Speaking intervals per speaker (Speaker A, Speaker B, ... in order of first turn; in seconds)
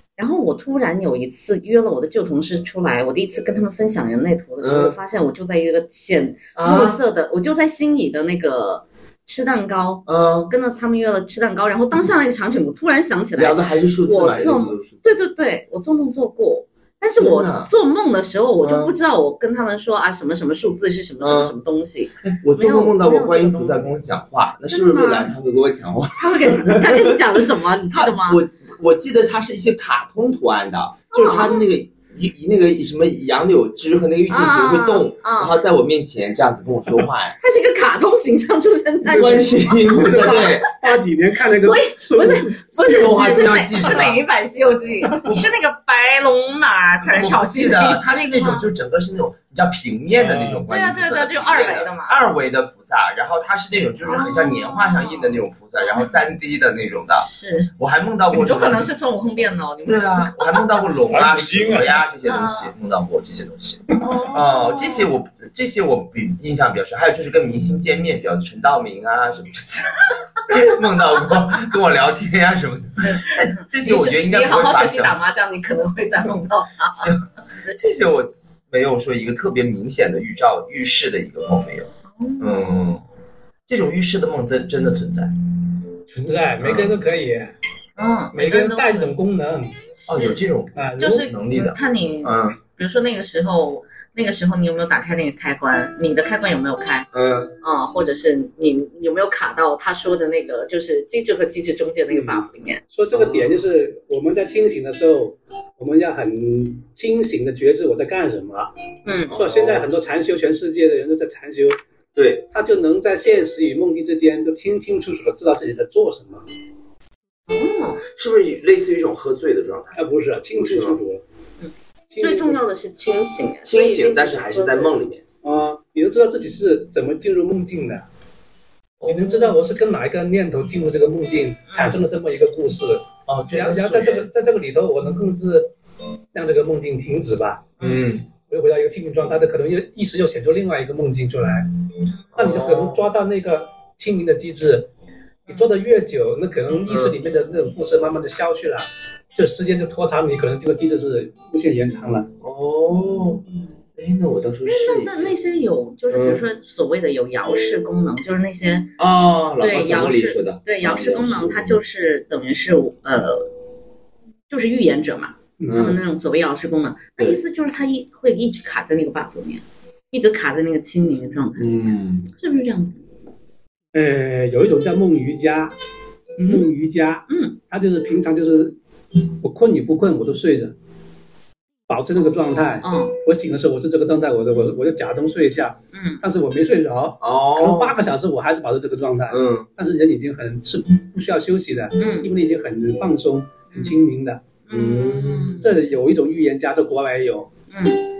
Speaker A: 0.2-23.9, 24.7-25.3, 26.2-28.4, 31.1-31.6, 34.3-35.6, 37.4-40.6, 41.5-48.7, 50.7-52.2, 54.0-56.1, 57.1-57.7, 58.3-60.6, 62.2-62.7, 64.0-65.1, 73.0-77.8, 82.1-82.8, 88.0-89.1, 89.9-90.4, 91.0-97.1, 97.6-102.8, 109.0-109.4, 117.5-118.0, 122.2-125.0, 131.7-131.9, 137.8-138.0, 154.7-158.9, 159.6-163.5, 164.5-171.7, 172.3-173.0, 177.3-177.6, 182.2-183.2, 185.9-186.2, 192.0-192.3, 193.7-194.0, 194.7-195.7, 197.7-198.0
Speaker B: 4.6-5.0, 6.5-7.0, 10.1-10.5, 13.3-15.2, 17.2-17.7, 18.6-18.9, 21.2-21.5, 22.2-37.4, 39.0-40.7, 42.8-44.2, 47.0-57.3, 57.8-58.9, 59.9-69.9, 70.5-75.2, 77.0-83.0, 83.7-85.3, 86.6-87.0, 90.1-92.6, 97.1-97.5, 103.1-103.6, 109.3-109.9, 112.2-112.5, 118.1-120.0, 120.6-121.0, 123.6-125.2, 129.0-129.5, 133.3-134.3, 137.8-138.2, 142.3-143.0, 146.9-147.2, 152.4-153.4, 153.9-155.3, 156.1-156.4, 159.0-161.8, 165.7-166.0, 171.6-172.3, 187.2-188.0, 189.3-189.7, 194.7-195.6
Speaker C: 39.1-43.6, 50.1-50.6, 61.1-62.0, 86.1-87.5, 88.3-89.8, 90.7-91.3, 102.1-102.4, 102.9-108.7, 109.3-111.8, 112.5-116.4, 119.9-121.2, 122.1-122.6, 125.4-128.1, 129.1-135.7, 136.3-141.7, 142.3-144.9, 145.5-152.3, 165.6-165.9, 173.9-175.7, 176.4-178.8, 179.4-180.7, 181.9-194.4, 195.6-197.5